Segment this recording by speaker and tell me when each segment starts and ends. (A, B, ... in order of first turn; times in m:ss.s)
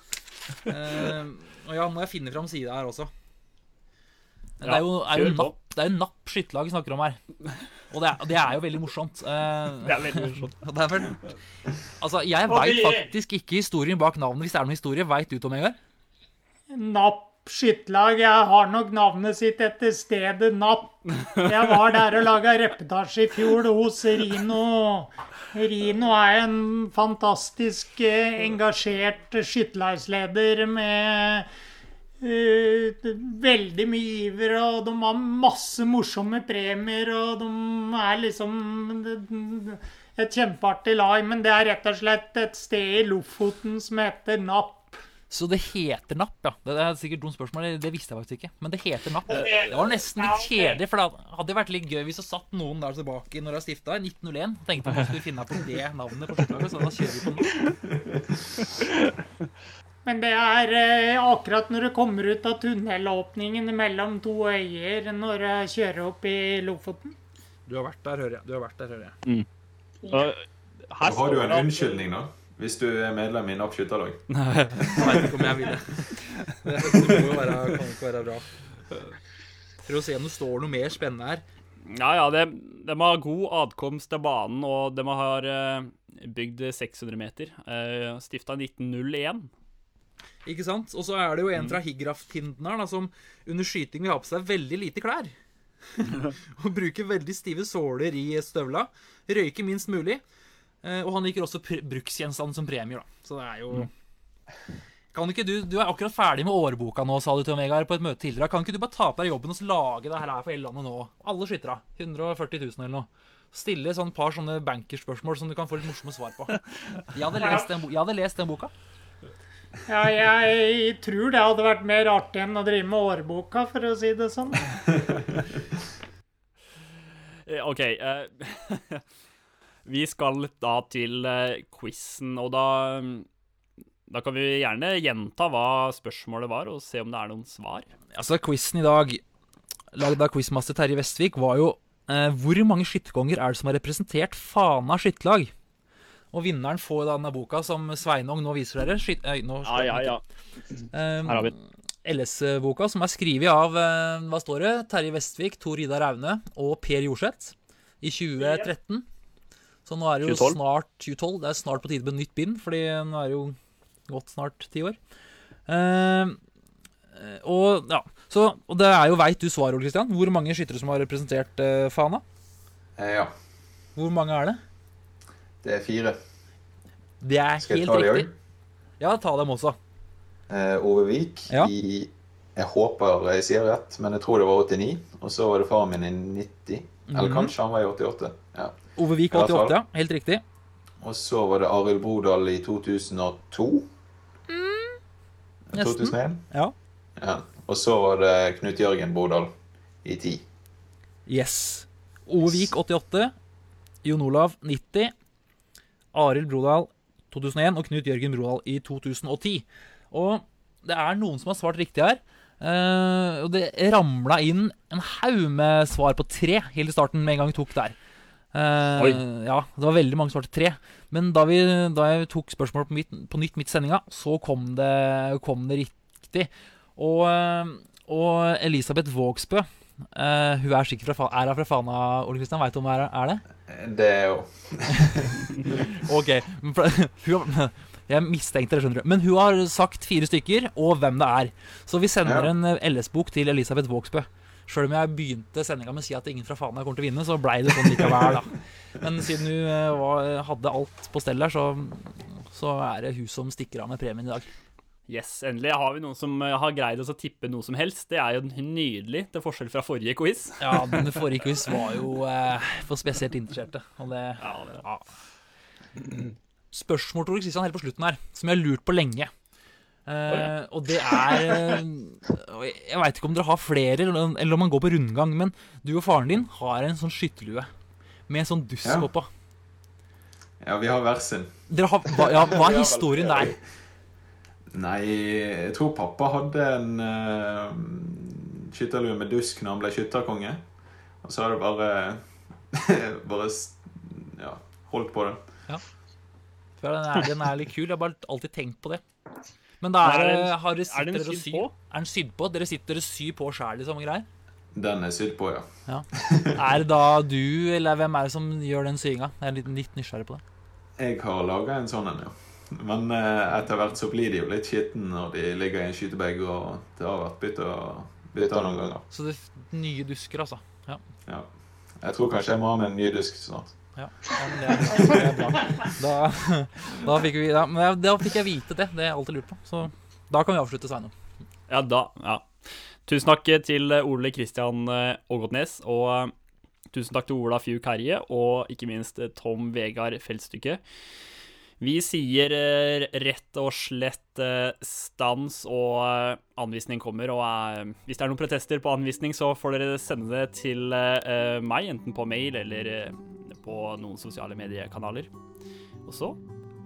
0:00.6-0:03.1 A
0:04.6-0:07.2 A
0:04.6-0:05.5 B
0:07.9-0:11.2 A
0:09.8-0:10.3 B
0:12.0-0:15.8 A
0:12.5-0:13.0 B
0:16.7-0:31.5 C
0:32.2-0:45.0 C
0:45.3-0:57.5 A
0:49.3-0:50.7 C
0:57.5-0:57.7 B
0:58.6-0:59.3 B
1:00.0-1:07.1 C
1:07.7-1:09.2 A
1:10.0-1:11.9 B
1:11.0-1:14.2 D
1:14.5-1:15.1 B
1:14.8-1:18.5 A
1:14.9-1:15.2 D
1:19.8-1:21.4 A
1:21.8-1:29.5 B
1:30.4-1:35.3 A
1:35.9-1:40.2 A
1:40.8-1:43.9 A
1:45.1-1:58.7 A
1:59.9-2:04.9 C
2:05.1-2:05.6 D
2:07.5-2:09.0 B
2:09.8-2:13.3 B
2:14.1-2:17.9 B
2:18.1-2:19.2 A
2:19.9-2:25.5 A
2:26.3-2:30.1 A
2:29.6-2:30.2 B
2:30.9-2:39.0 A
2:31.2-2:31.5 B
2:38.4-2:38.7 B
2:39.8-2:43.6 A
2:40.2-2:40.6 B
2:44.1-2:45.0 A
2:45.7-2:46.4 A
2:47.1-2:52.2 A
2:53.0-2:53.3 D
2:54.0-2:54.6 A
2:55.6-2:56.2 D
2:57.2-2:58.3 A
2:57.6-2:58.3 D
2:59.0-2:59.8 A
3:00.5-3:09.8 D
3:07.1-3:07.5 A
3:09.0-3:10.4 A
3:11.0-3:13.9 D
3:14.5-3:15.0 A
3:15.7-3:16.4 D
3:15.7-3:16.7 A
3:17.2-3:20.4 D
3:21.3-3:23.3 A
3:24.0-3:25.1 A
3:26.1-3:38.0 A
3:38.5-3:53.4 A
3:53.6-3:55.9 D
3:56.0-4:14.5 A
4:02.2-4:02.5 D
4:15.1-4:21.2 B
4:20.6-4:25.1 A
4:24.4-4:24.8 B
4:26.7-4:29.3 A
4:30.0-4:37.7 A
4:31.1-4:31.7 B
4:38.3-4:39.3 A
4:40.6-4:41.5 D
4:41.7-4:43.6 A
4:42.0-4:43.6 D
4:44.7-4:50.6 D
4:51.2-4:55.4 D
4:56.8-4:59.0 A
4:59.8-5:04.2 A
5:00.0-5:01.7 B
5:04.7-5:06.6 D
5:05.8-5:10.4 A
5:11.0-5:19.0 D
5:19.1-5:21.0 A
5:21.3-5:23.7 D
5:24.0-5:31.1 A
5:31.7-5:32.5 B
5:33.0-5:36.3 B
5:36.9-5:40.8 B
5:41.8-5:55.3 B
5:56.0-5:56.4 B